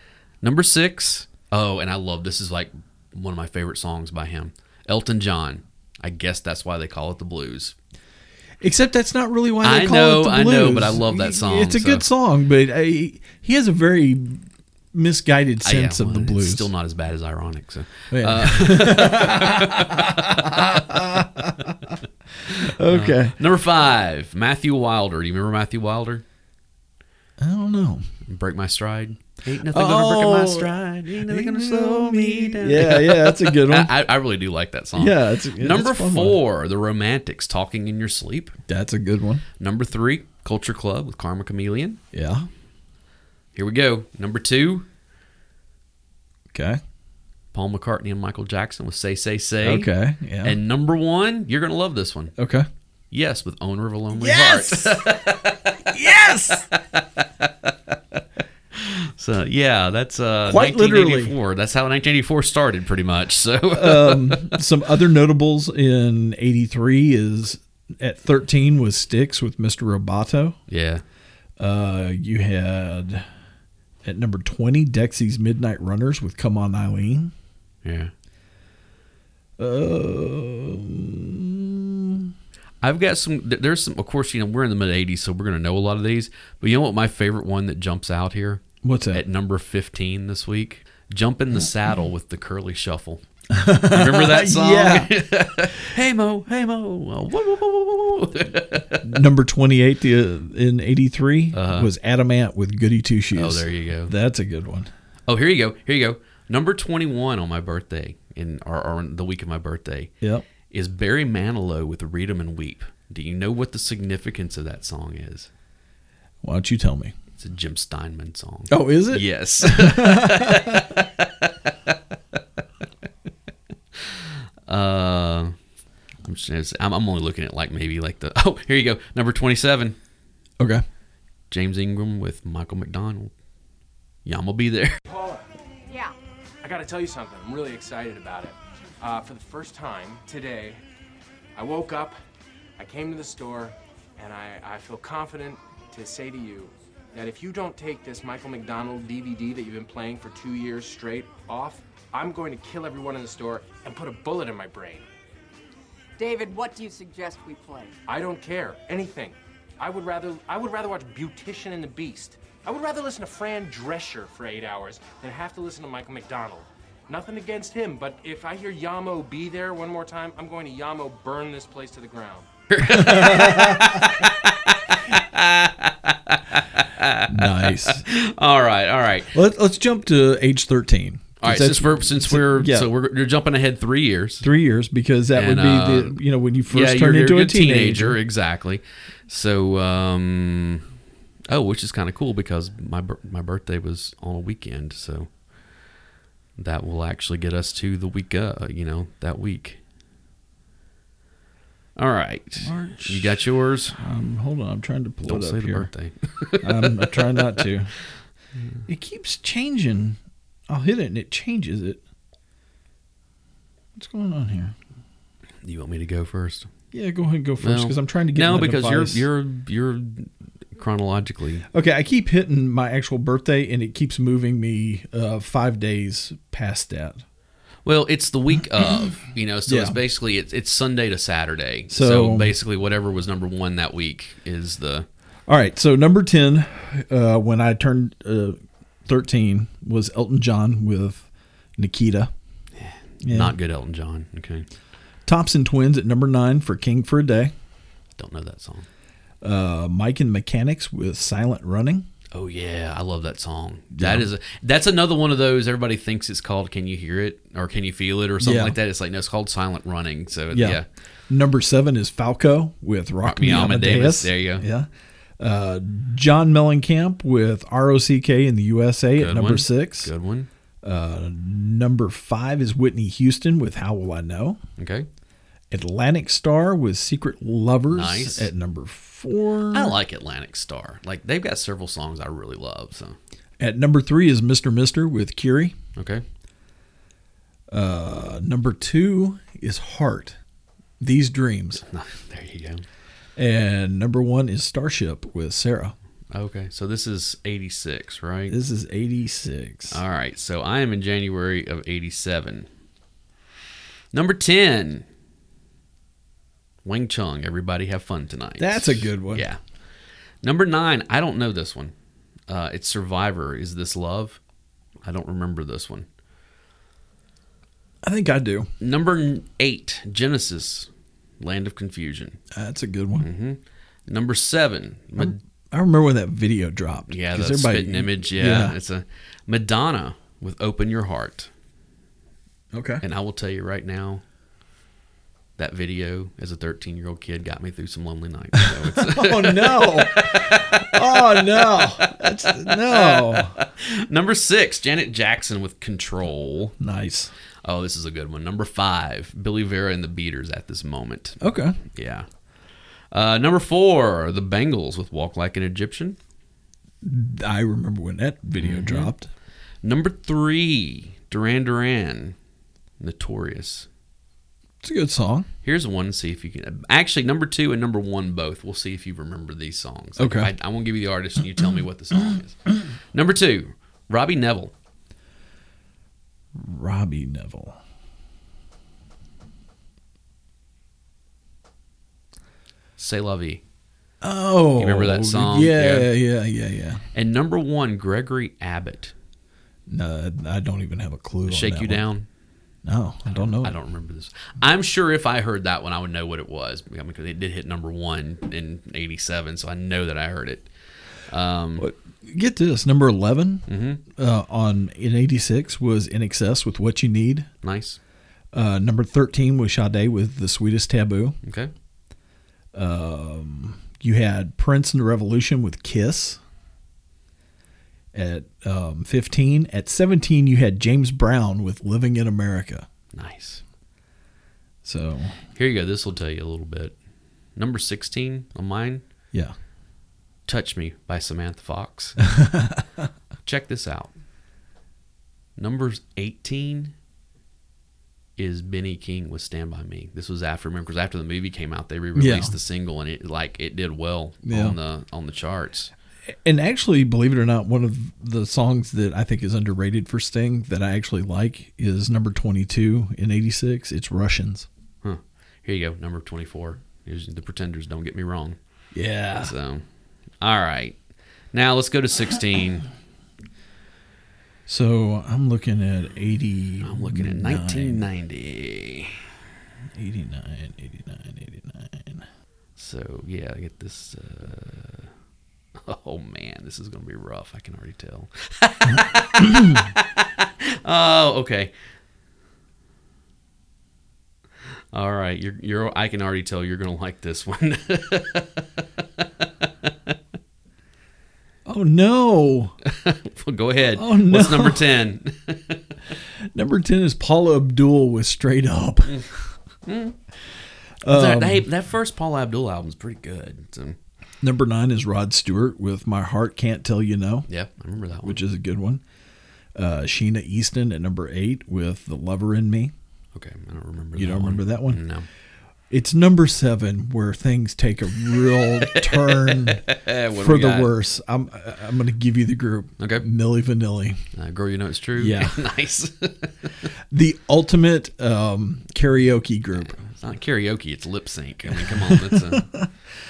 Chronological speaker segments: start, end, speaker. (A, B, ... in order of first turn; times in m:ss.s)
0:00.4-0:07.7 A
0:08.6-0:16.7 B
0:09.6-0:12.1 A
0:15.6-0:20.8 A
0:18.1-0:23.4 B
0:22.9-0:26.2 A
0:27.4-0:28.1 B
0:28.2-0:38.6 A
0:29.7-0:33.9 B
0:35.0-0:36.4 B
0:38.7-0:39.4 B
0:39.6-0:42.0 A
0:42.1-0:42.5 B
0:43.5-0:44.8 A
0:46.5-0:46.8 B
0:47.5-0:49.9 A
0:49.6-0:50.6 B
0:50.4-0:52.3 A
0:52.4-0:52.7 B
0:53.1-0:55.8 A
0:54.1-0:56.7 B
0:58.7-1:04.6 A
1:00.5-1:01.3 B
1:03.7-1:10.6 B
1:10.7-1:11.0 A
1:11.6-1:13.2 B
1:14.0-1:17.3 B
1:17.8-1:18.1 A
1:19.6-1:22.3 B
1:22.8-1:33.2 A
1:28.8-1:29.2 B
1:33.5-1:35.1 B
1:33.8-1:39.1 A
1:39.0-1:44.9 B
1:41.5-1:41.9 A
1:43.3-1:44.1 A
1:45.3-1:50.1 A
1:50.2-1:50.4 B
1:50.7-1:55.5 A
1:56.4-1:57.1 B
1:57.4-2:01.9 A
1:58.7-2:01.0 B
2:04.0-2:05.5 A
2:06.2-2:10.0 A
2:10.6-2:10.8 B
2:11.5-2:13.3 A
2:14.2-2:15.0 A
2:15.0-2:15.4 C
2:15.9-2:16.1 D
2:16.6-2:20.8 C
2:21.6-2:22.1 C
2:22.8-2:35.0 C
2:36.2-2:37.9 D
2:38.1-2:52.5 C
2:52.7-2:59.3 A
2:52.8-2:54.1 B
2:57.3-2:58.0 B
2:59.3-3:02.9 B
3:01.4-3:04.5 A
3:04.4-3:08.2 B
3:05.3-3:06.2 A
3:06.7-3:10.8 A
3:11.5-3:15.3 A
3:16.6-3:19.8 A
3:22.0-3:24.0 A
3:22.6-3:25.9 B
3:25.2-3:27.7 A
3:26.6-3:27.9 B
3:28.9-3:32.0 B
3:34.0-3:34.7 B
3:35.6-3:36.7 A
3:36.9-3:39.2 B
3:37.6-3:41.6 A
3:41.7-3:47.2 B
3:47.8-3:55.1 A
3:49.7-3:50.0 B
3:51.9-3:52.5 B
3:55.5-4:02.3 B
4:02.8-4:04.7 A
4:03.2-4:03.5 B
4:05.2-4:07.5 B
4:08.2-4:08.9 A
4:09.4-4:12.0 B
4:12.3-4:20.8 A
4:13.9-4:14.3 B
4:18.4-4:18.8 B
4:20.5-4:24.9 B
4:23.2-4:24.6 A
4:25.4-4:30.1 B
4:29.2-4:30.5 A
4:30.8-4:34.6 B
4:34.8-4:35.1 A
4:35.7-4:40.0 B
4:37.9-4:38.5 A
4:39.7-4:43.2 A
4:43.6-4:45.8 B
4:46.0-4:46.2 A
4:47.7-4:50.4 B
4:51.0-4:51.8 B
4:51.8-4:52.8 A
4:53.4-4:55.9 B
4:56.3-4:58.6 A
4:58.5-5:00.0 B
4:59.9-5:02.7 A
5:04.1-5:05.0 A
5:06.8-5:09.6 A
5:08.6-5:09.5 B
5:10.4-5:11.9 A
5:12.5-5:14.4 A
5:15.0-5:16.1 A
5:18.0-5:18.7 B
5:18.8-5:20.9 A
5:21.4-5:22.4 A
5:22.5-5:23.3 B
5:23.2-5:25.4 A
5:25.2-5:28.8 B
5:27.1-5:31.5 A
5:32.7-5:33.0 B
5:33.0-5:34.2 A
5:35.6-5:46.8 A
5:38.9-5:43.6 B
5:46.8-5:47.3 B
5:47.6-5:52.2 A
5:51.4-5:51.8 B
5:53.1-5:56.2 A
5:57.0-5:59.3 B
5:58.6-5:59.1 A
5:59.8-6:02.4 A
6:03.0-6:03.9 A
6:04.8-6:05.5 B
6:05.6-6:14.7 A
6:10.2-6:10.5 B
6:16.6-6:17.8 B
6:23.0-6:23.6 A
6:24.2-6:27.0 B
6:24.8-6:26.1 A
6:27.1-6:29.1 A
6:29.9-6:32.1 B
6:31.4-6:32.3 A
6:32.8-6:33.8 B
6:33.3-6:40.7 A
6:41.3-6:41.9 A
6:41.8-6:47.5 B
6:43.7-6:44.0 A
6:47.6-6:48.0 A
6:48.5-6:51.4 B
6:51.4-6:51.7 A
6:52.7-6:56.4 B
6:58.1-7:02.9 B
7:03.1-7:03.6 A
7:04.8-7:05.4 B
7:05.5-7:07.0 A
7:07.6-7:09.0 A
7:10.5-7:12.2 A
7:12.2-7:12.8 B
7:13.4-7:14.1 A
7:15.6-7:16.9 A
7:18.4-7:25.9 A
7:22.1-7:22.5 B
7:24.4-7:24.8 B
7:26.4-7:34.7 B
7:35.0-7:38.6 A
7:38.9-7:39.5 B
7:39.4-7:39.8 A
7:40.4-7:41.0 A
7:41.5-7:42.9 A
7:44.7-7:48.0 B
7:46.8-7:49.2 A
7:49.9-7:52.2 B
7:52.8-7:55.1 A
7:55.8-8:01.7 A
7:59.4-7:59.8 B
8:04.9-8:10.1 A
8:11.6-8:12.8 B
8:12.8-8:15.9 A
8:13.9-8:14.9 B
8:16.5-8:19.2 B
8:19.8-8:20.2 A
8:21.0-8:21.6 B
8:21.0-8:24.0 A
8:24.4-8:27.5 B
8:27.5-8:28.4 A
8:28.2-8:29.0 B
8:29.7-8:32.9 B
8:33.3-8:35.3 A
8:34.2-8:35.0 B
8:35.9-8:44.2 B
8:38.6-8:40.9 A
8:43.0-8:43.2 A
8:44.3-8:46.7 A
8:45.2-8:45.6 B
8:47.1-8:50.0 B
8:49.9-8:52.7 A
8:51.7-8:52.9 B